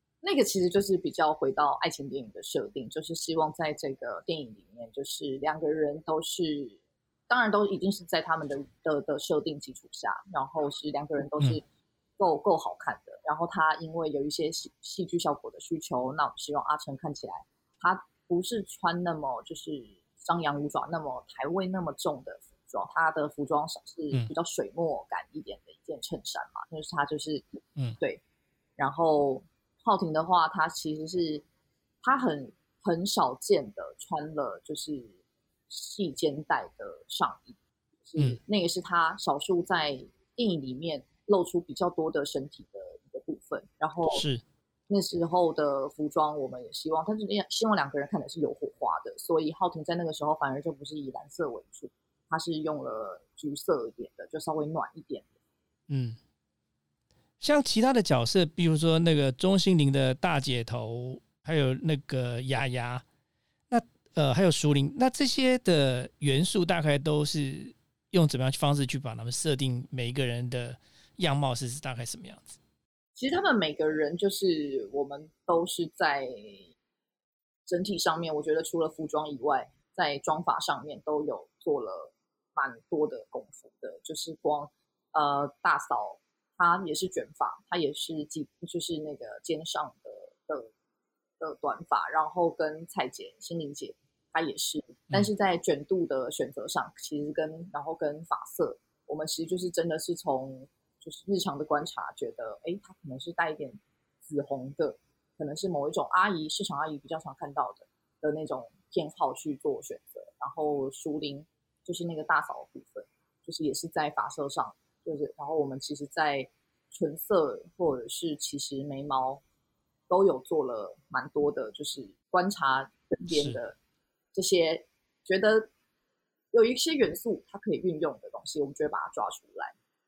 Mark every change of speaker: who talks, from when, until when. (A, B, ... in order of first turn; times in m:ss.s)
0:00.2-0:11.6 A
0:12.2-0:27.4 A
0:28.8-0:31.4 A
0:32.0-0:35.1 A
0:35.7-0:44.2 A
0:44.1-0:44.4 B
0:44.9-0:55.3 A
0:55.9-0:56.2 B
0:57.4-1:03.0 B
1:03.7-1:12.6 B
1:13.2-1:16.6 A
1:17.7-1:30.7 A
1:31.4-1:59.4 A
2:00.1-2:03.8 A
2:03.3-2:03.6 B
2:04.3-2:05.7 A
2:06.5-2:09.7 A